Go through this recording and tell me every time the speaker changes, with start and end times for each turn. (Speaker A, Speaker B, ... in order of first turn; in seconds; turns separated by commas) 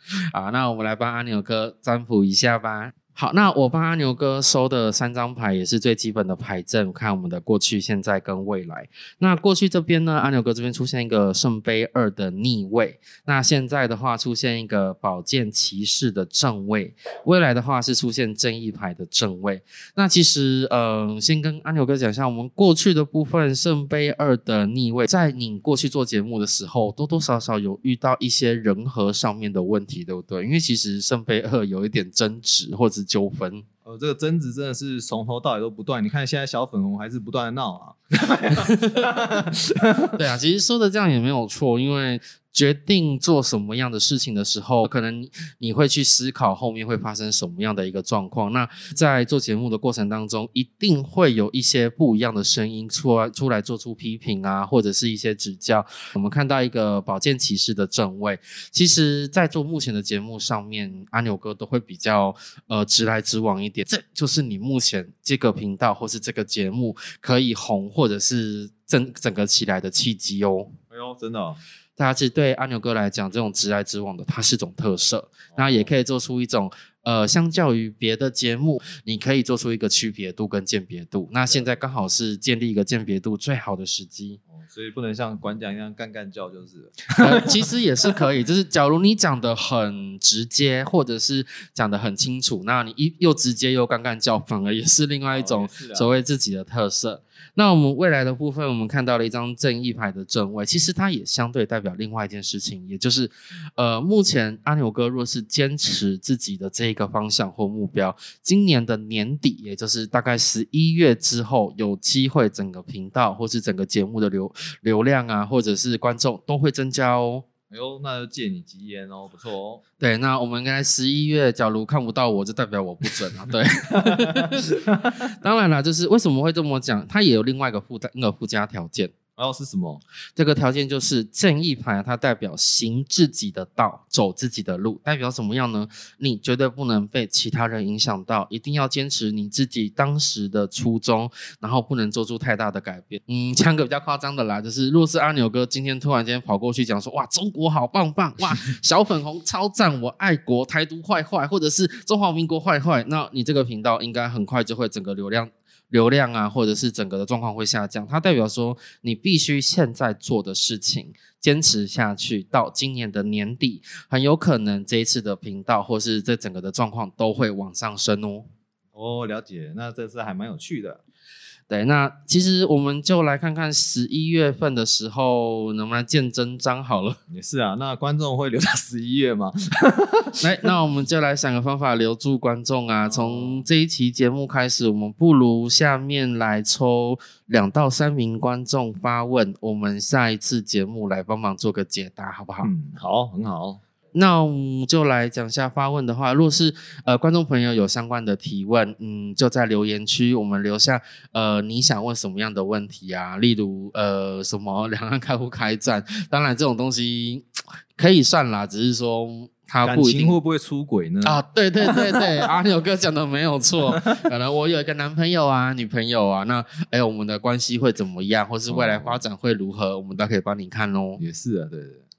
Speaker A: 0.3-33.6, Speaker B: 33.9-40.1, Speaker A: 38.7-39.1, Speaker A: 40.1-70.7, Speaker B: 70.9-71.6, Speaker A: 72.0-84.4, Speaker B: 75.5-75.9, Speaker B: 81.5-81.7, Speaker B: 84.5-87.2, Speaker A: 87.2-117.5, Speaker B: 95.3-96.1, Speaker B: 117.7-119.8, Speaker A: 120.0-129.1, Speaker B: 129.4-130.0, Speaker A: 130.4-168.5, Speaker B: 168.9-171.0, Speaker A: 171.7-177.2, Speaker B: 177.3-180.3, Speaker A: 180.4-192.7, Speaker B: 183.1-183.7, Speaker B: 192.6-193.8, Speaker A: 194.2-207.4, Speaker A: 208.0-210.4, Speaker B: 209.8-212.2, Speaker A: 211.2-221.2, Speaker B: 218.7-219.2, Speaker B: 221.2-222.0